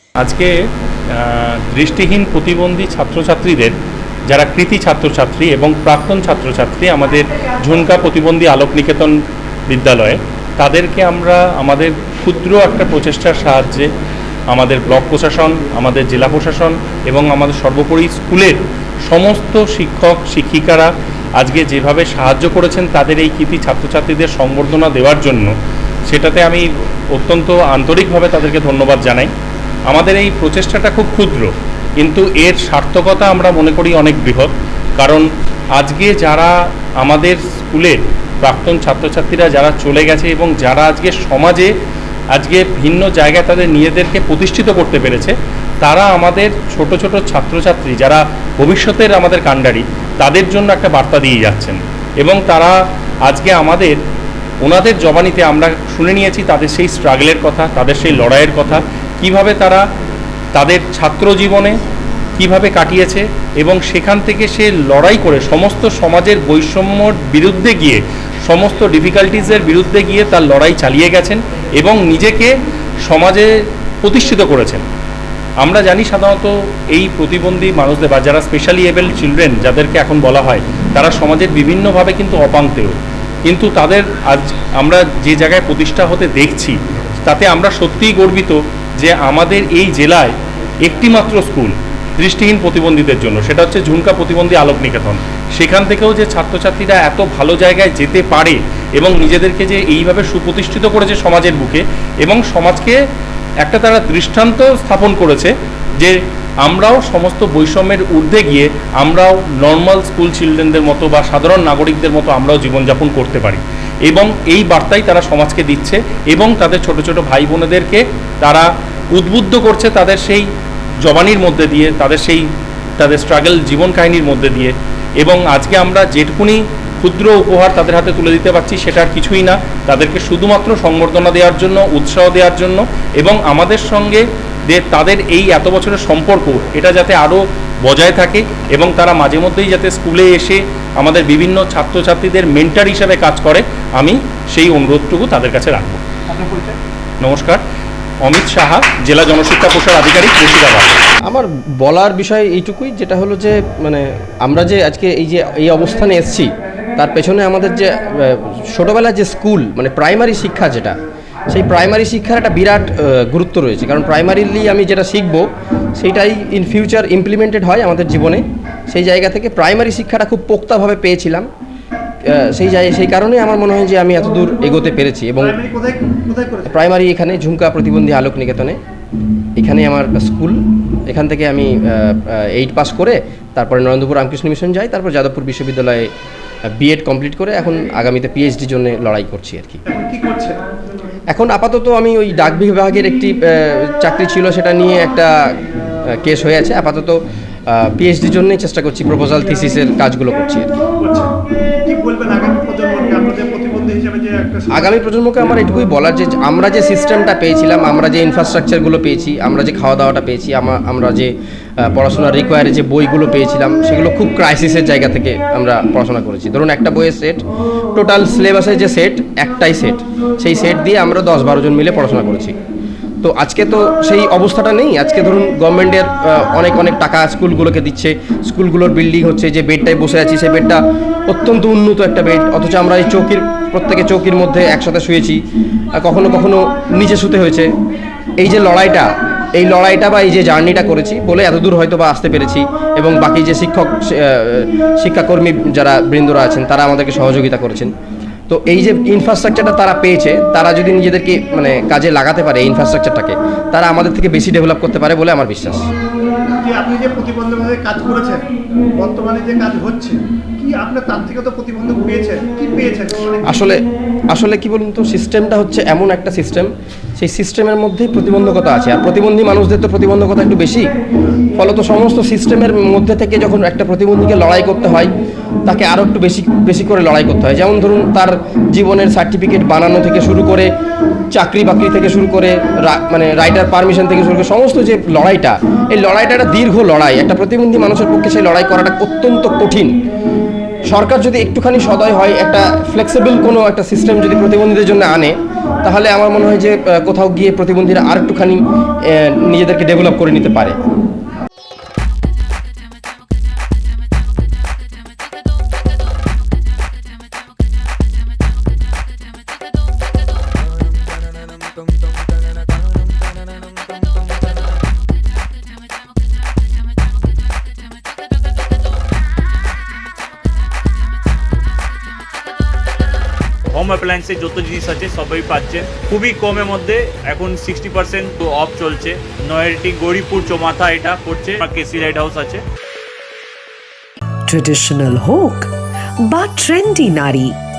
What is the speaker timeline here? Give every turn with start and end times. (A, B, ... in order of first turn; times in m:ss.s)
0:00.2-0:00.5 A
0:01.1-0:03.7 A
0:04.3-0:09.1 A
0:09.7-0:13.9 A
0:14.5-0:18.6 A
0:19.1-0:25.5 A
0:26.1-0:29.3 A
0:29.9-0:31.5 A
0:32.0-0:35.2 A
0:35.8-0:36.5 A
0:37.0-0:41.7 A
0:42.3-0:52.7 A
0:53.2-0:54.0 A
0:54.6-0:59.8 A
1:00.5-1:01.8 A
1:02.4-1:12.5 A
1:13.0-1:13.5 A
1:14.0-1:14.8 A
1:15.6-1:30.3 A
1:30.8-1:42.9 A
1:43.6-2:00.4 A
2:01.0-2:02.4 A
2:03.0-2:26.0 A
2:26.3-2:26.8 B
2:27.2-2:27.6 A
2:28.2-2:30.9 A
2:31.2-2:41.0 C
2:41.5-2:45.4 C
2:46.0-2:51.5 C
2:52.3-2:55.6 C
2:55.4-2:56.9 B
2:56.7-2:58.8 C
2:59.6-3:06.1 C
3:06.8-3:09.8 C
3:09.9-3:10.6 B
3:11.3-3:15.3 C
3:16.1-3:17.2 C
3:17.7-3:20.7 C
3:21.0-3:21.3 B
3:21.8-3:25.0 B
3:24.7-3:37.4 C
3:37.9-3:42.5 C
3:43.2-3:55.4 C
3:56.0-3:57.7 C
3:58.4-4:07.9 C
4:08.5-4:15.9 C
4:16.3-4:18.4 B
4:19.0-4:23.6 B
4:23.5-4:23.8 C
4:24.3-4:30.9 C
4:31.6-4:35.1 C
4:35.6-4:40.7 C
4:41.3-4:49.9 C
4:50.9-4:58.6 C
4:59.1-5:00.8 C
5:23.7-5:32.6 D
5:34.5-5:35.7 E
5:36.3-5:37.6 E